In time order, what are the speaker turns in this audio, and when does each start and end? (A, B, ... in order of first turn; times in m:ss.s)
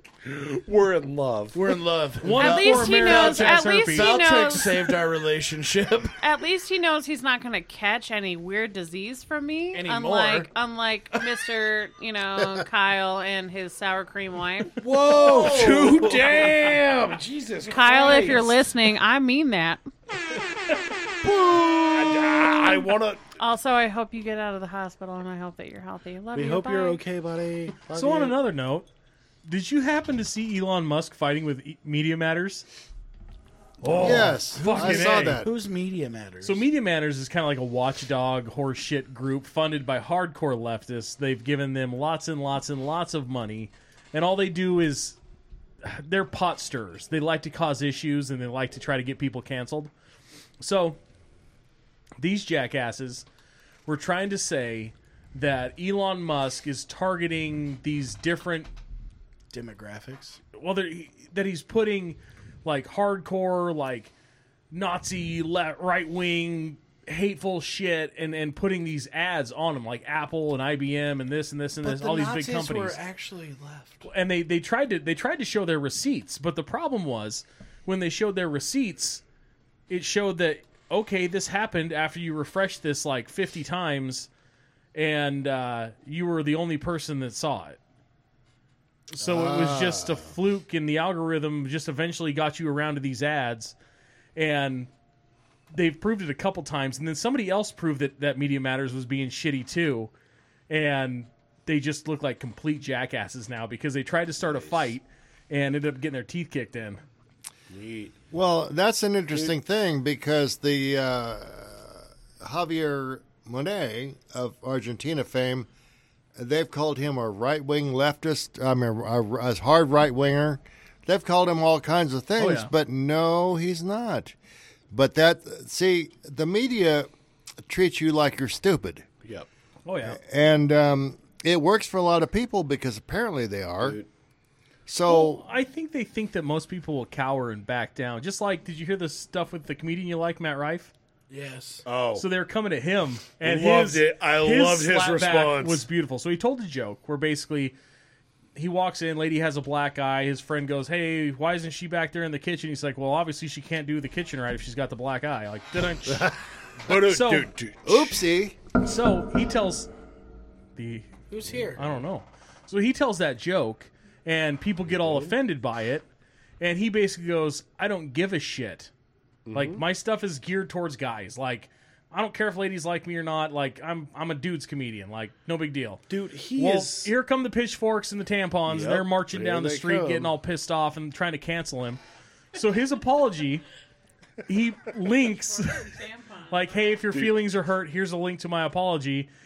0:00.2-0:01.8 A
0:01.5-0:06.1 B
0:02.2-0:04.6 C
0:02.3-0:04.9 D
0:06.2-0:14.8 D
0:09.7-0:10.5 B
0:14.8-0:16.6 B
0:14.9-0:18.4 A
0:17.7-0:19.8 D
0:17.8-0:18.5 B
0:21.8-0:23.2 A
0:23.4-0:27.0 D
0:26.3-0:28.4 A
0:27.9-0:28.9 C
0:29.4-0:32.6 C
0:33.8-0:35.4 C
0:33.9-0:36.7 B
0:34.0-0:35.5 E
0:36.4-0:45.2 C
0:45.8-0:49.9 C
0:50.6-0:51.0 C
0:52.2-0:53.2 C
0:53.9-0:58.7 C
0:59.5-1:00.4 B
1:00.5-1:04.1 C
1:04.7-1:13.0 C
1:11.8-1:14.0 B
1:14.0-1:19.2 C
1:19.9-1:24.3 C
1:24.9-1:27.8 C
1:29.1-1:33.7 C
1:29.2-1:30.3 E
1:34.4-1:34.9 C
1:35.7-1:40.1 C
1:40.7-1:47.0 C
1:44.4-1:44.9 A
1:47.7-1:48.2 A
1:48.3-1:55.7 E
1:56.4-2:04.4 E
2:02.4-2:02.7 C
2:04.9-2:07.1 E
2:07.6-2:09.0 E
2:09.8-2:10.2 C
2:10.0-2:14.0 E
2:13.8-2:14.1 A
2:14.9-2:15.4 E
2:15.0-2:20.9 C
2:21.3-2:21.8 B
2:21.8-2:22.2 A
2:22.1-2:27.8 C
2:23.4-2:25.8 A
2:28.5-2:36.3 C
2:36.8-2:38.2 A
2:36.9-2:37.5 C
2:37.8-2:38.6 E
2:38.8-2:39.9 C
2:40.8-2:46.0 C
2:41.3-2:42.0 B
2:44.9-2:45.3 A
2:46.6-2:48.9 C
2:49.4-2:49.8 A
2:49.5-3:02.0 C
2:56.1-2:57.1 A
2:58.7-3:00.3 A
3:02.5-3:03.6 C
3:04.4-3:05.8 C
3:05.2-3:06.9 D
3:06.5-3:09.3 C